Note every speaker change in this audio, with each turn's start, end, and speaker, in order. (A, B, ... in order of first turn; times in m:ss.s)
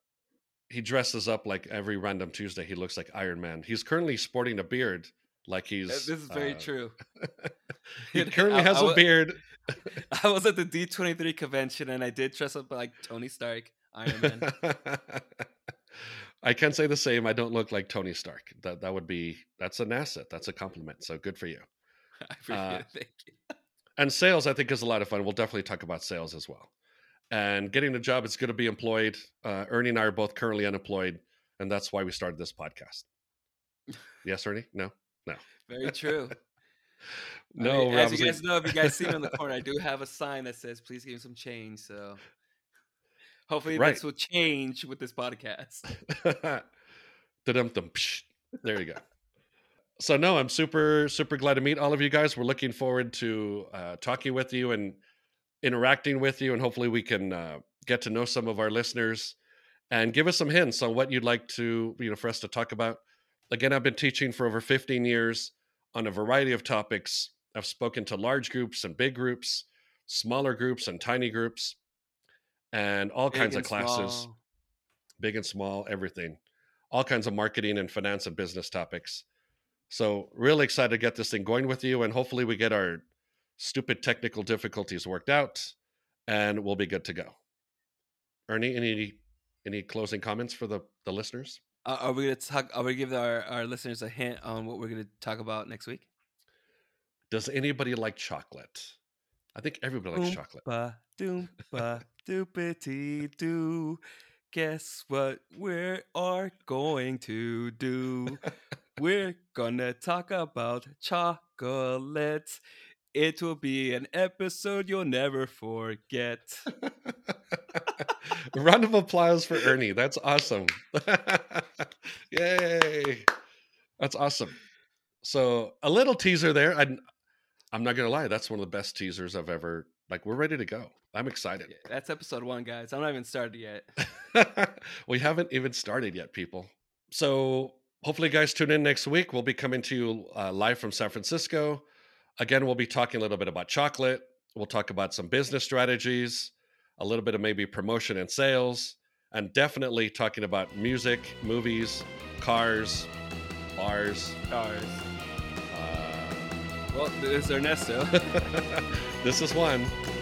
0:00.7-0:06.7 A
0:05.9-0:07.0 B
0:07.2-0:07.5 A
0:08.0-0:09.4 A
0:08.1-0:09.2 B
0:09.9-0:14.5 B
0:14.2-0:15.2 A
0:16.4-0:21.7 A
0:22.2-0:23.3 B
0:22.5-0:22.8 A
0:24.0-0:26.7 A
0:27.3-0:33.0 A
0:34.2-0:35.9 A
0:35.6-0:36.3 B
0:37.5-0:39.1 A
0:37.6-0:42.2 B
0:43.5-0:45.9 B
0:43.7-0:44.0 A
0:46.1-0:46.6 A
0:47.4-0:49.0 A
0:50.0-0:55.0 A
0:55.6-0:59.4 A
0:59.9-1:11.8 A
1:12.7-1:14.3 A
1:13.3-1:14.4 B
1:15.2-1:16.4 A
1:16.9-1:19.2 A
1:19.9-1:23.0 A
1:23.6-1:25.8 A
1:26.3-1:27.4 A
1:28.5-1:31.6 A
1:31.8-1:36.1 B
1:37.3-1:39.0 A
1:39.5-1:40.6 A
1:40.1-1:44.0 B
1:44.5-1:52.6 B
1:53.1-1:56.7 B
1:58.5-2:03.3 A
2:04.0-2:04.6 A
2:05.2-2:07.0 A
2:07.7-2:11.7 A
2:11.6-2:13.9 B
2:14.3-2:21.8 A
2:22.4-2:33.1 A
2:33.7-2:34.4 A
2:34.5-2:35.1 B
2:35.7-2:36.5 A
2:36.9-2:38.5 B
2:38.3-2:40.0 A